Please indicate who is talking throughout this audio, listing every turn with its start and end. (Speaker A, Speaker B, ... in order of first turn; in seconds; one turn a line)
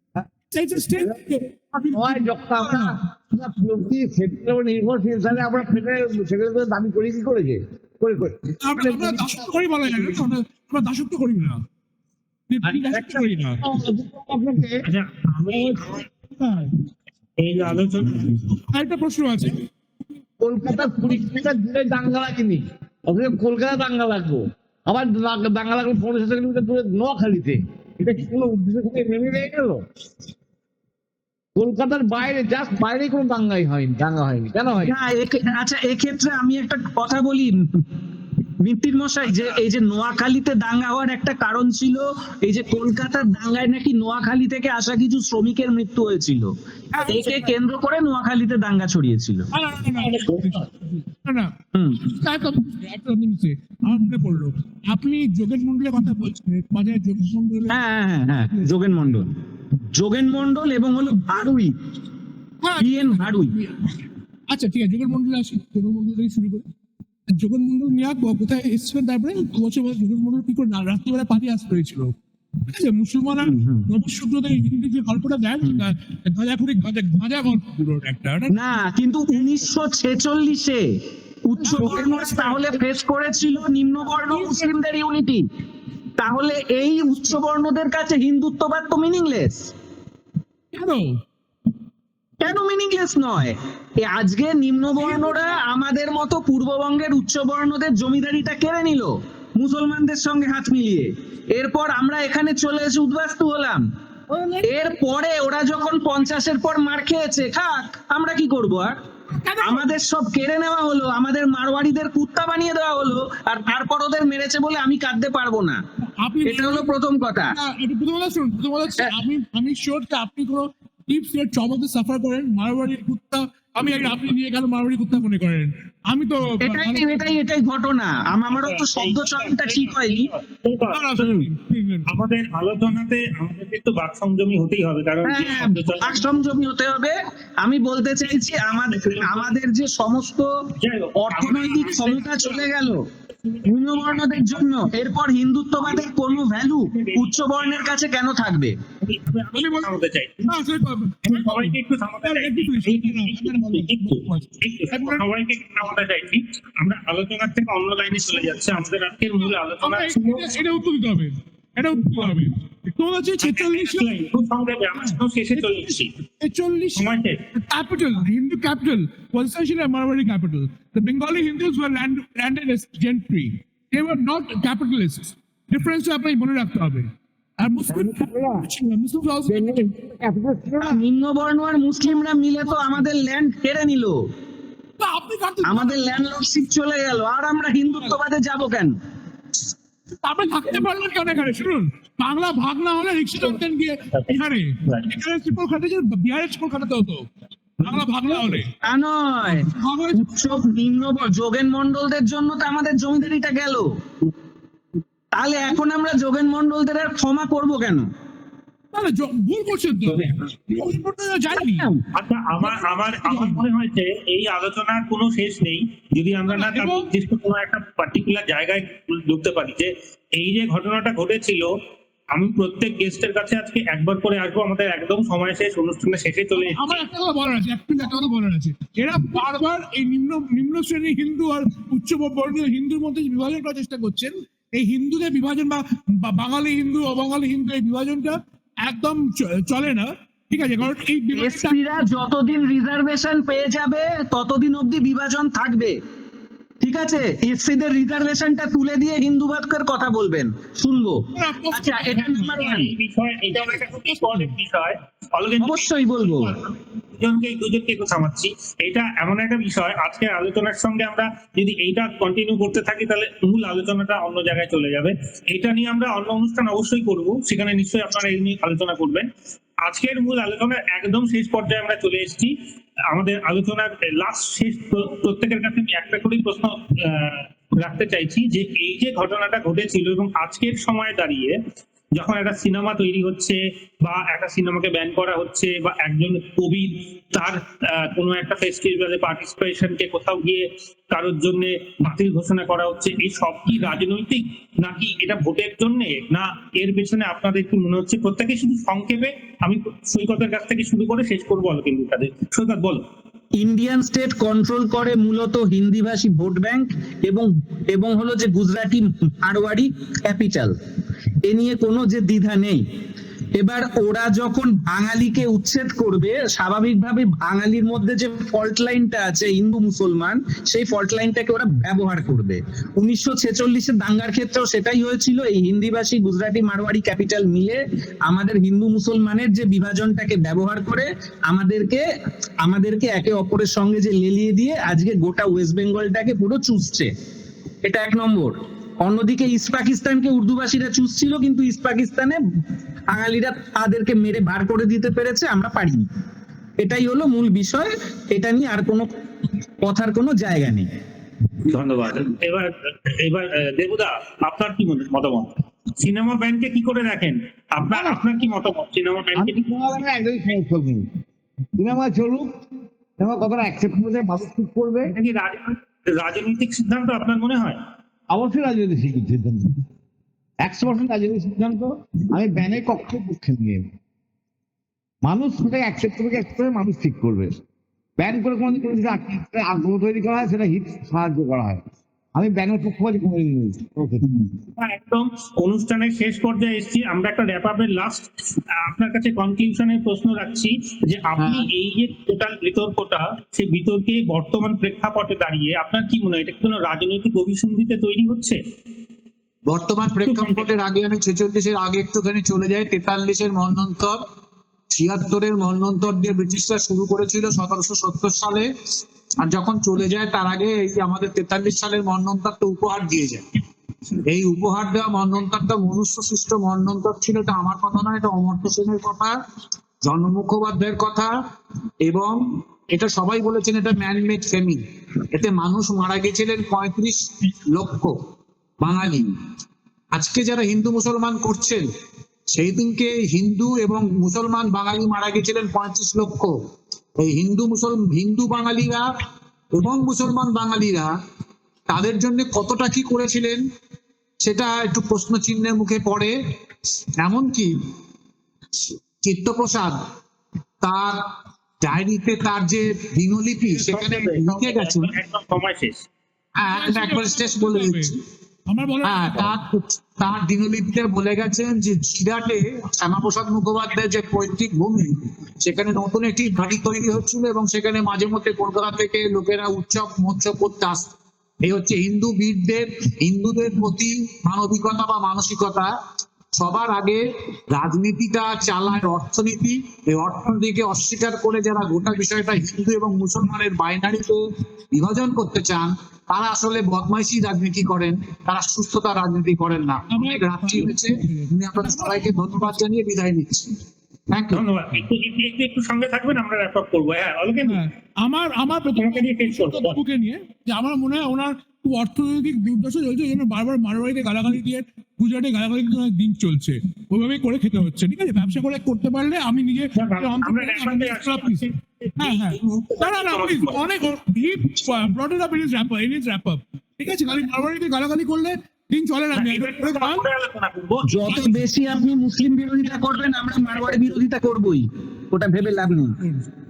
Speaker A: 0.5-3.0
Speaker B: 1.9-10.2
Speaker A: 8.6-11.6
Speaker A: 12.5-13.6
Speaker B: 12.6-14.8
Speaker C: 14.8-16.1
Speaker A: 15.5-16.7
Speaker C: 17.4-18.6
Speaker A: 18.7-19.7
Speaker B: 20.4-29.8
Speaker A: 20.7-21.2
Speaker B: 31.6-34.9
Speaker D: 34.9-37.9
Speaker D: 38.6-46.5
Speaker A: 46.9-47.5
Speaker D: 47.0-49.5
Speaker A: 49.5-57.8
Speaker C: 50.0-50.6
Speaker D: 51.7-52.0
Speaker D: 57.7-59.3
Speaker A: 58.4-58.7
Speaker D: 59.9-61.7
Speaker A: 62.6-66.7
Speaker D: 62.8-63.5
Speaker A: 67.3-78.7
Speaker D: 73.4-73.8
Speaker D: 78.5-85.5
Speaker A: 81.6-82.8
Speaker A: 84.2-84.7
Speaker D: 86.2-89.7
Speaker A: 90.7-91.2
Speaker D: 92.4-103.8
Speaker A: 95.0-95.5
Speaker A: 104.3-104.8
Speaker D: 104.6-109.0
Speaker A: 109.3-109.9
Speaker D: 109.6-115.8
Speaker A: 116.2-116.9
Speaker D: 116.5-117.5
Speaker A: 117.5-127.3
Speaker D: 126.6-130.3
Speaker C: 128.5-131.4
Speaker A: 130.9-132.1
Speaker C: 132.1-136.4
Speaker D: 135.2-140.5
Speaker C: 138.9-139.5
Speaker C: 140.8-142.6
Speaker D: 141.2-143.1
Speaker C: 143.4-144.6
Speaker D: 143.6-148.8
Speaker C: 145.9-147.9
Speaker C: 149.0-150.6
Speaker A: 149.5-155.2
Speaker C: 151.2-160.6
Speaker A: 159.8-164.1
Speaker C: 163.4-166.1
Speaker A: 165.0-179.9
Speaker C: 166.9-167.4
Speaker B: 177.9-178.7
Speaker B: 179.5-181.0
Speaker D: 180.8-184.3
Speaker A: 185.0-186.1
Speaker D: 185.7-189.0
Speaker A: 190.2-197.3
Speaker A: 197.8-198.7
Speaker D: 198.8-204.0
Speaker A: 199.5-200.3
Speaker D: 205.3-208.1
Speaker A: 208.9-211.9
Speaker D: 211.6-212.0
Speaker C: 212.1-221.8
Speaker A: 212.6-213.7
Speaker A: 216.5-217.1
Speaker C: 222.3-227.1
Speaker A: 226.6-241.9
Speaker D: 241.3-246.0
Speaker D: 246.8-252.9
Speaker A: 251.3-252.7
Speaker C: 252.3-269.3
Speaker A: 253.8-254.5
Speaker D: 255.6-256.6
Speaker C: 269.8-272.6
Speaker C: 273.1-281.6
Speaker C: 282.1-303.0
Speaker D: 303.6-310.7
Speaker D: 311.4-312.8
Speaker D: 313.6-332.0
Speaker D: 332.6-337.1
Speaker D: 337.8-342.4
Speaker D: 343.1-346.1
Speaker D: 346.8-349.1
Speaker D: 349.8-350.9
Speaker C: 351.6-359.6
Speaker B: 357.9-358.2
Speaker B: 359.3-361.1
Speaker B: 361.8-362.6
Speaker B: 363.2-365.1
Speaker C: 365.1-367.8
Speaker B: 368.3-369.8
Speaker B: 370.6-373.9
Speaker B: 375.2-377.6
Speaker B: 378.2-381.8
Speaker B: 382.3-384.5
Speaker C: 384.8-398.6
Speaker E: 391.4-391.7
Speaker E: 399.7-404.2
Speaker C: 400.3-400.6
Speaker E: 404.9-408.7
Speaker E: 409.4-413.4
Speaker E: 414.3-419.4
Speaker E: 420.0-421.3
Speaker E: 422.0-428.2
Speaker E: 428.8-429.3
Speaker E: 430.1-431.9
Speaker E: 432.5-436.5
Speaker E: 437.2-439.1
Speaker E: 439.7-441.1
Speaker E: 441.9-443.6
Speaker E: 444.4-446.3
Speaker E: 447.2-447.8
Speaker E: 449.2-450.0
Speaker E: 450.8-451.2
Speaker E: 451.8-455.1
Speaker C: 453.8-456.1
Speaker E: 456.6-458.2
Speaker A: 456.7-458.1
Speaker A: 458.7-459.6
Speaker E: 459.0-475.9
Speaker E: 476.5-494.6
Speaker A: 490.1-492.8
Speaker C: 494.5-497.8
Speaker A: 497.6-520.3
Speaker C: 498.9-500.0
Speaker C: 509.9-513.9
Speaker C: 519.3-521.6
Speaker D: 521.1-526.2
Speaker A: 526.2-526.5